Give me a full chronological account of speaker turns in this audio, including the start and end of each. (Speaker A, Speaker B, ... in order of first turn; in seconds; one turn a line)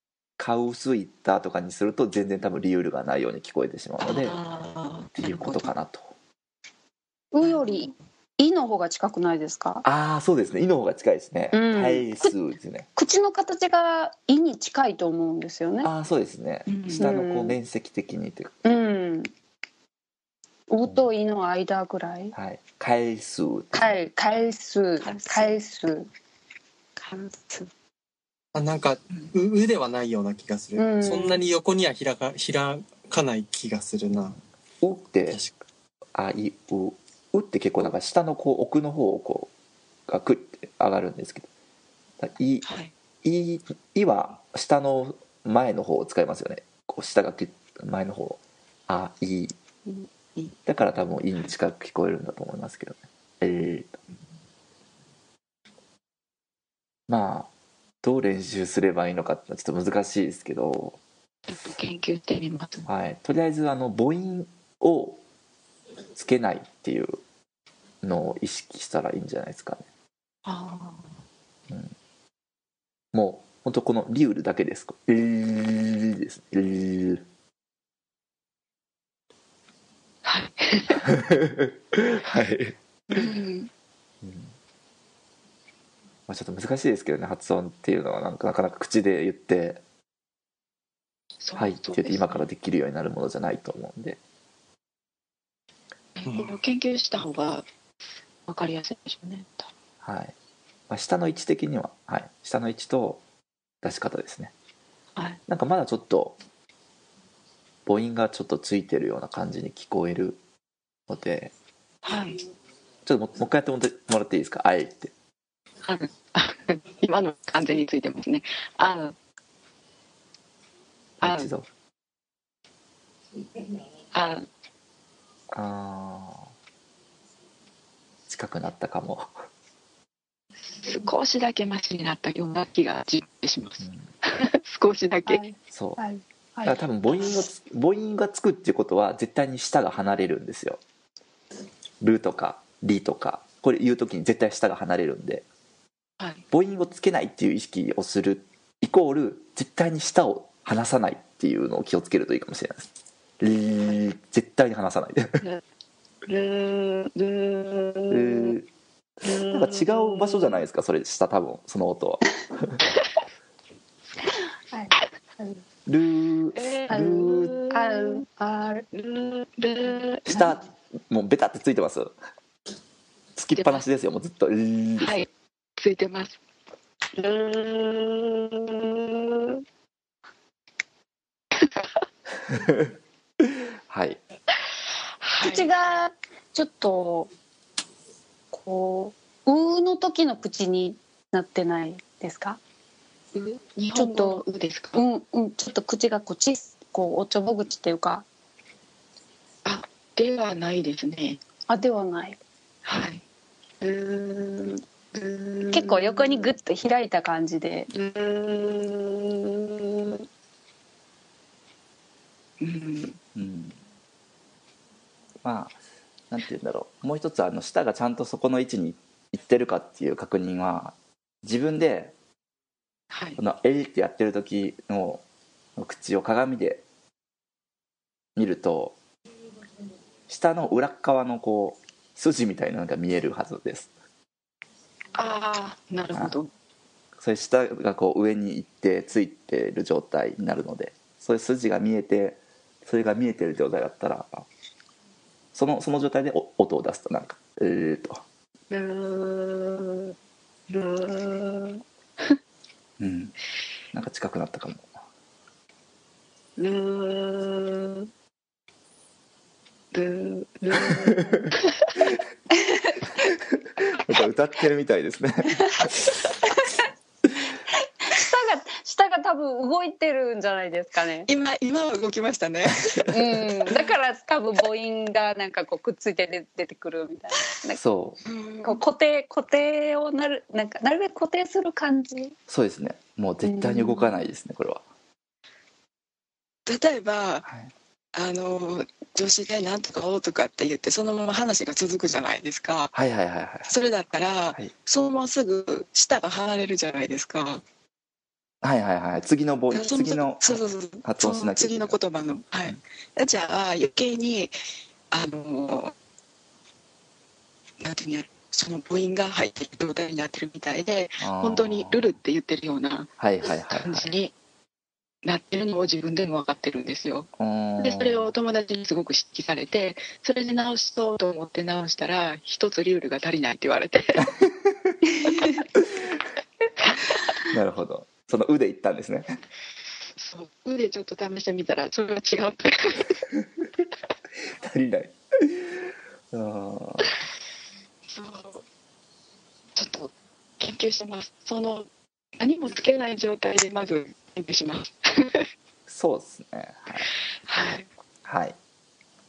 Speaker A: 0.4-4.4
Speaker B: 4.0-5.7
Speaker A: 5.2-6.1
Speaker C: 7.3-9.8
Speaker B: 7.4-8.0
Speaker A: 9.8-12.9
Speaker C: 11.5-12.3
Speaker C: 13.0-15.9
Speaker A: 15.8-18.6
Speaker B: 16.7-17.1
Speaker C: 16.9-17.6
Speaker C: 18.6-19.3
Speaker C: 20.7-22.4
Speaker A: 20.8-21.1
Speaker A: 22.3-23.9
Speaker C: 23.7-26.1
Speaker B: 25.0-25.6
Speaker B: 27.0-27.7
Speaker D: 28.5-34.4
Speaker C: 30.8-31.4
Speaker A: 34.8-35.4
Speaker D: 35.3-35.5
Speaker A: 36.1-39.5
Speaker A: 40.1-41.5
Speaker A: 42.2-42.6
Speaker B: 42.6-42.9
Speaker A: 43.2-49.6
Speaker B: 49.9-50.6
Speaker A: 50.7-54.0
Speaker A: 57.1-57.5
Speaker A: 58.0-61.0
Speaker B: 61.5-62.9
Speaker A: 62.9-65.2
Speaker A: 66.2-67.2
Speaker A: 68.0-69.9
Speaker B: 70.5-71.2
Speaker A: 73.1-77.2
Speaker B: 80.2-81.1
Speaker A: 81.1-83.3
Speaker B: 83.1-83.7
Speaker A: 84.2-84.5
Speaker A: 86.3-89.8
Speaker B: 91.4-92.5
Speaker A: 91.6-94.2
Speaker B: 96.2-97.7
Speaker D: 96.2-96.5
Speaker B: 98.5-99.7
Speaker A: 100.0-100.3
Speaker A: 100.9-103.2
Speaker A: 103.8-104.5
Speaker A: 105.5-106.4
Speaker A: 107.9-110.4
Speaker A: 111.1-111.5
Speaker B: 112.0-112.4
Speaker A: 113.0-115.1
Speaker B: 115.8-119.2
Speaker A: 121.2-121.7
Speaker B: 121.2-121.5
Speaker B: 124.1-124.5
Speaker A: 125.5-126.5
Speaker A: 128.3-129.3
Speaker B: 130.8-135.4
Speaker A: 133.8-134.1
Speaker C: 135.3-136.8
Speaker A: 135.7-136.0
Speaker A: 136.6-140.8
Speaker A: 142.0-145.4
Speaker A: 146.5-152.9
Speaker A: 153.4-155.4
Speaker B: 156.3-158.6
Speaker A: 158.1-158.7
Speaker B: 159.2-160.6
Speaker A: 159.3-162.8
Speaker C: 164.7-165.6
Speaker A: 165.9-167.6
Speaker B: 166.6-168.2
Speaker C: 166.9-168.8
Speaker B: 168.9-170.4
Speaker A: 170.2-172.1
Speaker A: 173.4-175.1
Speaker B: 173.6-173.8
Speaker B: 175.0-176.4
Speaker B: 177.1-179.6
Speaker B: 181.6-182.0
Speaker A: 182.5-182.9
Speaker A: 183.9-184.2
Speaker B: 185.2-185.7
Speaker C: 185.4-187.3
Speaker C: 188.5-192.6
Speaker B: 193.3-195.0
Speaker C: 193.9-194.4
Speaker C: 194.9-198.2
Speaker B: 199.7-201.4
Speaker C: 201.7-202.4
Speaker B: 202.8-203.2
Speaker B: 203.8-206.5
Speaker C: 205.7-207.9
Speaker B: 207.9-210.3
Speaker B: 212.6-213.2
Speaker A: 213.3-213.8
Speaker A: 215.4-215.8
Speaker A: 216.3-222.1
Speaker B: 223.1-223.4
Speaker A: 223.4-225.2
Speaker A: 225.8-226.8
Speaker A: 228.4-229.0
Speaker A: 230.3-233.9
Speaker B: 235.2-236.5
Speaker A: 237.2-244.5
Speaker A: 245.6-248.2
Speaker B: 248.7-250.2
Speaker B: 250.7-252.4
Speaker A: 253.0-253.3
Speaker A: 253.9-254.9
Speaker B: 256.6-258.1
Speaker B: 259.9-262.1
Speaker A: 260.9-261.5
Speaker A: 263.5-266.1
Speaker C: 268.1-271.3
Speaker B: 271.3-273.8
Speaker C: 273.1-277.8
Speaker A: 277.7-278.2
Speaker B: 278.3-278.8
Speaker C: 278.6-282.4
Speaker A: 282.5-284.8
Speaker C: 283.4-284.1
Speaker B: 286.7-287.5
Speaker A: 287.4-287.7
Speaker B: 288.1-292.9
Speaker A: 292.9-293.7
Speaker B: 293.7-297.6
Speaker A: 298.6-300.5
Speaker B: 299.7-304.5
Speaker A: 301.0-302.0
Speaker B: 305.1-305.9
Speaker B: 307.8-314.3
Speaker A: 311.2-312.1
Speaker A: 313.2-314.1
Speaker B: 315.2-324.3
Speaker A: 317.4-318.3
Speaker A: 324.2-325.0
Speaker A: 327.5-329.4
Speaker B: 330.2-333.2
Speaker A: 334.6-335.8
Speaker A: 336.3-337.1
Speaker B: 338.1-338.6
Speaker B: 339.8-341.9
Speaker B: 342.4-345.5
Speaker A: 345.9-347.1
Speaker B: 347.5-347.9
Speaker A: 348.2-348.6